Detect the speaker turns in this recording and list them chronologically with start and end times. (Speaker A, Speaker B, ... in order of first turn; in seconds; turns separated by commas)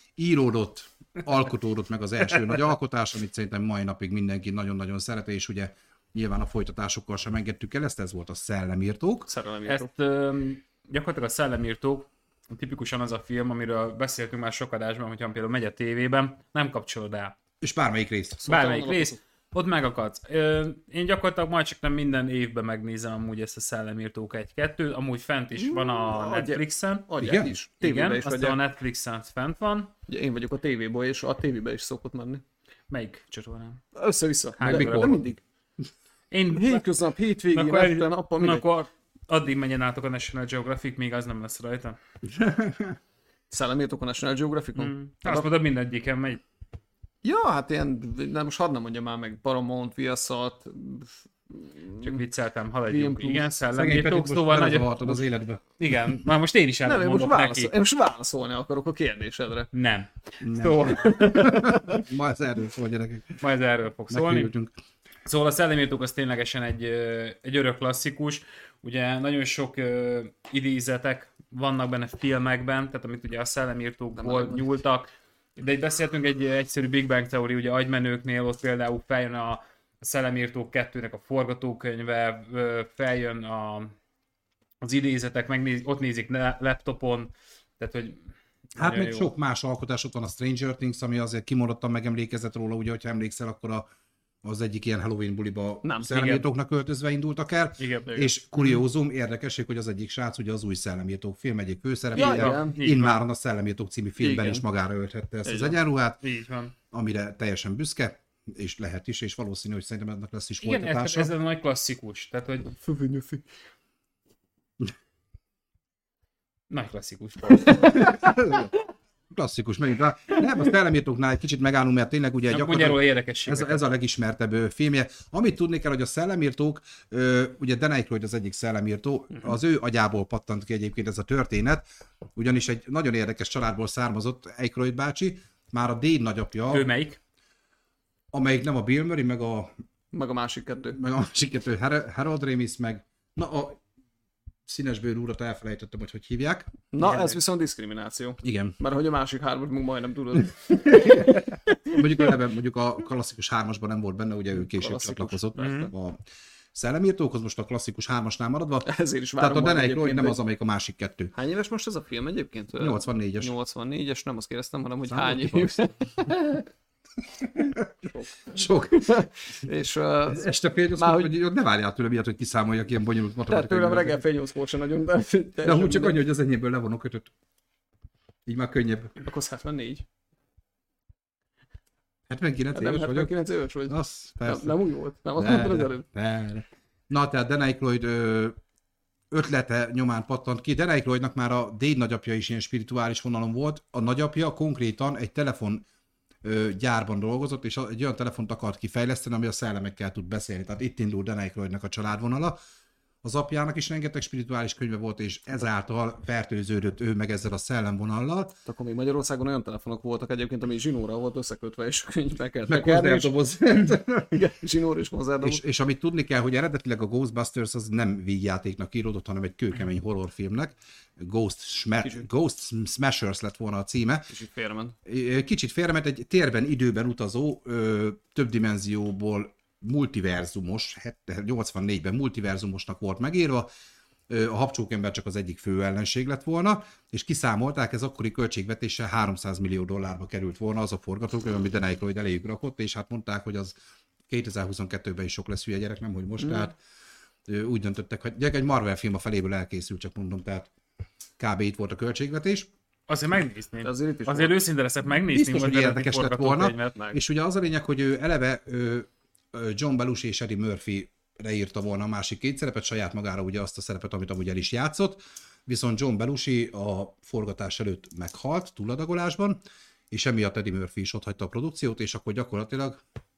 Speaker A: 0.2-9.3, Speaker B: 9.3-9.9, Speaker C: 9.7-17.3, Speaker A: 17.6-18.4, Speaker B: 18.4-19.2, Speaker C: 18.4-27.1, Speaker B: 25.6-28.6, Speaker A: 27.2-27.5, Speaker C: 27.8-29.9, Speaker B: 30.1-32.4, Speaker C: 32.9-33.8, Speaker B: 33.9-35.4, Speaker C: 34.6-35.2, Speaker A: 34.6-35.1, Speaker C: 36.3-36.9, Speaker B: 36.5-38.6, Speaker C: 37.5-42.0, Speaker A: 42.3-43.0, Speaker B: 43.5-45.5, Speaker C: 44.8-46.4, Speaker B: 47.2-52.2, Speaker C: 52.0-55.2, Speaker B: 52.9-53.5, Speaker A: 53.7-55.6, Speaker C: 55.8-57.7, Speaker B: 56.8-59.7, Speaker C: 59.7-61.6, Speaker A: 60.4-63.4, Speaker B: 61.2-62.0, Speaker C: 63.4-64.5, Speaker A: 64.1-64.7, Speaker C: 65.2-83.9, Speaker B: 74.2-74.6, Speaker C: 84.8-88.2, Speaker A: 88.8-93.9, Speaker C: 88.8-89.3, Speaker A: 94.4-106.2, Speaker C: 96.1-96.4, Speaker C: 97.8-98.8, Speaker B: 102.1-102.8, Speaker C: 102.2-103.2, Speaker B: 104.2-104.6, Speaker B: 105.4-105.8, Speaker C: 106.2-106.7, Speaker A: 106.9-111.3, Speaker C: 110.6-112.7, Speaker B: 112.7-113.5, Speaker C: 116.7-118.2, Speaker A: 117.9-118.7, Speaker A: 119.3-131.8, Speaker C: 122.5-123.8, Speaker A: 132.3-136.9, Speaker C: 136.7-137.2, Speaker A: 138.3-139.7, Speaker B: 140.1-141.0, Speaker A: 140.9-143.8, Speaker A: 144.7-146.8, Speaker B: 146.9-152.3, Speaker A: 148.4-148.8, Speaker A: 150.8-156.2, Speaker B: 154.5-155.9, Speaker C: 155.6-155.9, Speaker A: 156.7-161.3, Speaker B: 158.8-160.4, Speaker B: 161.3-166.7, Speaker A: 162.8-163.5, Speaker A: 165.1-165.8, Speaker A: 167.4-167.9, Speaker B: 168.1-171.3, Speaker A: 168.5-169.2, Speaker A: 170.3-174.2, Speaker B: 173.5-176.2, Speaker A: 175.6-177.3, Speaker A: 178.4-179.2, Speaker B: 179.2-180.0, Speaker A: 182.3-183.3, Speaker B: 182.7-186.1, Speaker A: 183.9-184.8, Speaker A: 185.4-188.6, Speaker A: 189.3-195.8, Speaker A: 196.4-202.6, Speaker A: 203.2-208.6, Speaker B: 208.7-215.6, Speaker A: 212.7-214.4, Speaker A: 215.4-224.3, Speaker B: 224.3-224.9, Speaker A: 225.0-233.7, Speaker A: 234.3-243.7, Speaker A: 244.3-246.8, Speaker B: 246.4-246.7, Speaker A: 247.5-250.7, Speaker A: 251.4-252.7, Speaker C: 253.1-257.0, Speaker B: 253.8-254.6, Speaker A: 255.3-269.6, Speaker A: 270.1-273.0